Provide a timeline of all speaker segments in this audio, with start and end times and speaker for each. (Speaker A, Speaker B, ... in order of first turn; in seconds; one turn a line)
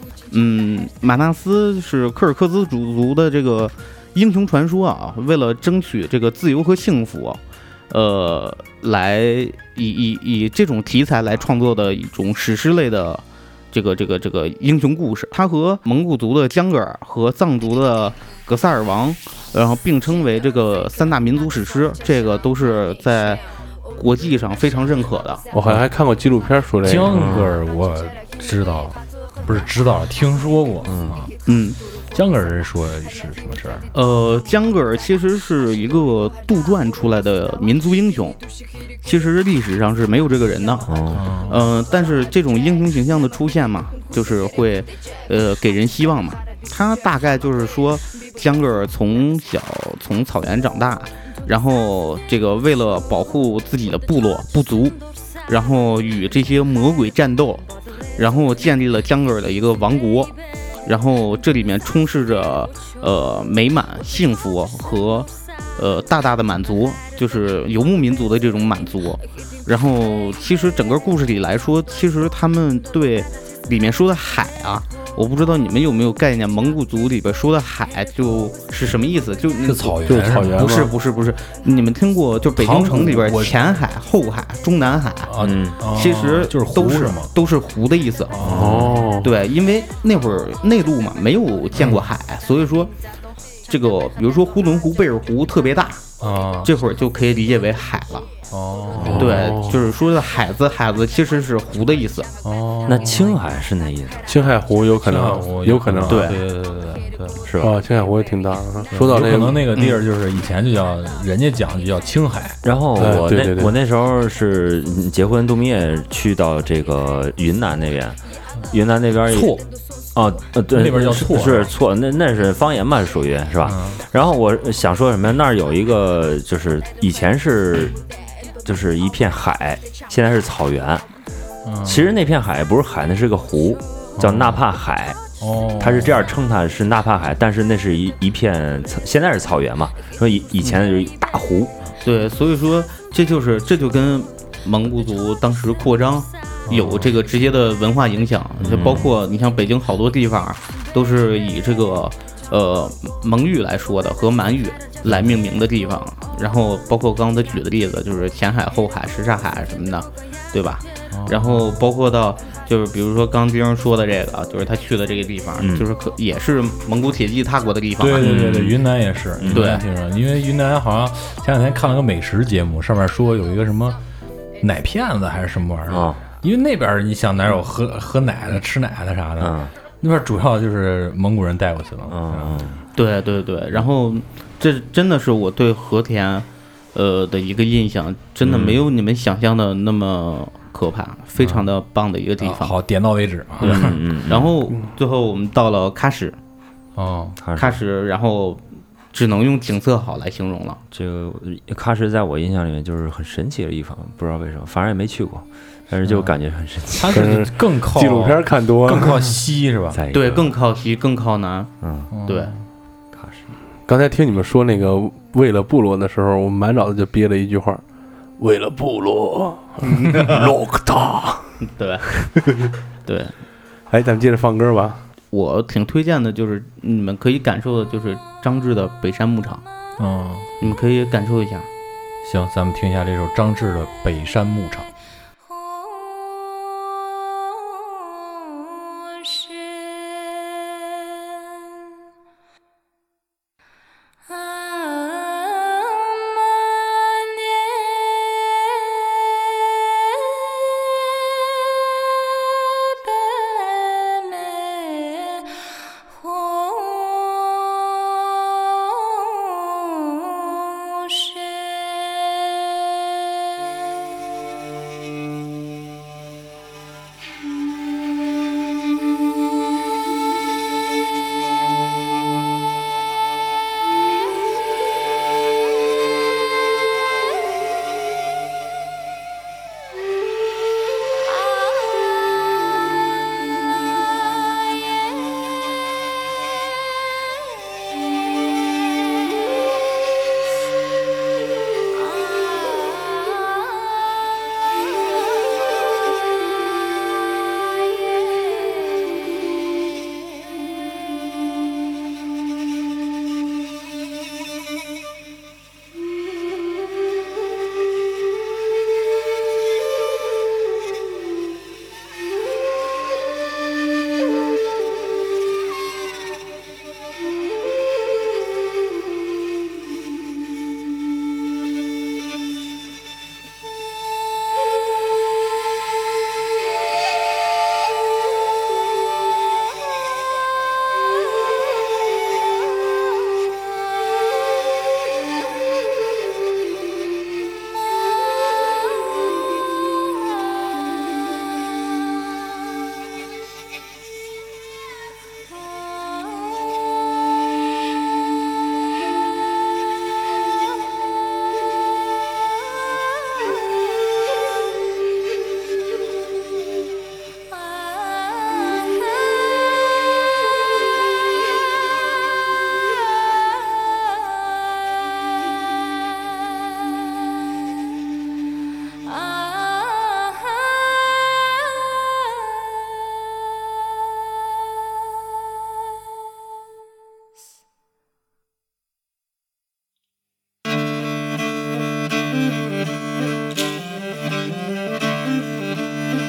Speaker A: 0.3-23.4
Speaker A: 23.9-25.4
Speaker B: 25.5-27.2
Speaker C: 26.8-31.3
Speaker D: 27.1-27.6
Speaker D: 30.9-31.2
Speaker A: 31.5-31.8
Speaker C: 32.1-33.9
Speaker A: 33.9-38.4
Speaker A: 39.0-57.6
Speaker D: 40.9-41.2
Speaker C: 41.1-41.7
Speaker A: 58.2-60.3
Speaker A: 60.9-88.5
Speaker C: 79.6-80.8
Speaker B: 80.0-80.9
Speaker C: 82.6-83.6
Speaker C: 85.2-87.3
Speaker D: 85.4-85.8
Speaker C: 88.3-89.2
Speaker D: 88.4-89.0
Speaker B: 88.5-89.3
Speaker A: 89.2-92.9
Speaker A: 93.7-96.0
Speaker C: 96.2-96.7
Speaker A: 96.6-98.3
Speaker C: 98.5-99.4
Speaker D: 99.0-99.3
Speaker B: 99.0-99.9
Speaker A: 99.1-102.3
Speaker C: 102.4-103.4
Speaker D: 102.9-104.3
Speaker B: 104.3-106.3
Speaker C: 105.0-107.5
Speaker A: 106.1-106.4
Speaker D: 107.4-107.8
Speaker B: 107.6-109.7
Speaker C: 108.9-112.6
Speaker A: 109.7-110.0
Speaker D: 112.6-118.2
Speaker B: 113.0-113.8
Speaker D: 118.7-119.6
Speaker C: 119.3-119.7
Speaker D: 120.2-128.0
Speaker C: 120.7-121.7
Speaker C: 123.6-124.0
Speaker D: 128.6-131.1
Speaker C: 131.7-132.1
Speaker D: 131.8-135.2
Speaker C: 134.2-134.6
Speaker C: 135.4-136.3
Speaker D: 135.8-141.7
Speaker A: 142.0-168.4
Speaker C: 146.7-147.1
Speaker D: 148.6-149.1
Speaker C: 155.1-155.4
Speaker C: 161.1-161.7
Speaker D: 165.6-165.9
Speaker C: 168.0-174.0
Speaker D: 168.2-168.8
Speaker D: 169.4-169.8
Speaker A: 169.5-169.8
Speaker C: 174.6-182.7
Speaker D: 175.9-176.2
Speaker D: 179.4-179.7
Speaker D: 182.1-182.8
Speaker A: 183.0-192.8
Speaker D: 188.4-188.8
Speaker C: 191.4-191.7
Speaker C: 192.4-194.0
Speaker D: 193.6-194.5
Speaker A: 193.6-196.4
Speaker C: 197.0-197.4
Speaker D: 197.4-197.8
Speaker A: 197.6-200.8
Speaker D: 200.9-207.2
Speaker C: 206.0-206.3
Speaker C: 206.9-210.0
Speaker B: 207.1-209.3
Speaker D: 209.9-210.5
Speaker A: 210.1-211.7
Speaker D: 211.8-212.1
Speaker C: 212.1-212.6
Speaker A: 212.3-212.5
Speaker D: 213.1-213.5
Speaker B: 213.9-217.8
Speaker B: 218.4-221.6
Speaker A: 219.8-220.5
Speaker A: 221.6-222.1
Speaker B: 222.2-222.7
Speaker A: 223.1-223.3
Speaker B: 223.9-225.0
Speaker A: 225.3-229.6
Speaker C: 230.0-230.5
Speaker A: 230.6-231.7
Speaker C: 232.2-234.9
Speaker E: 239.2-240.5
Speaker E: 244.5-248.9
Speaker E: 252.9-255.5
Speaker E: 256.1-257.6
Speaker E: 259.0-262.4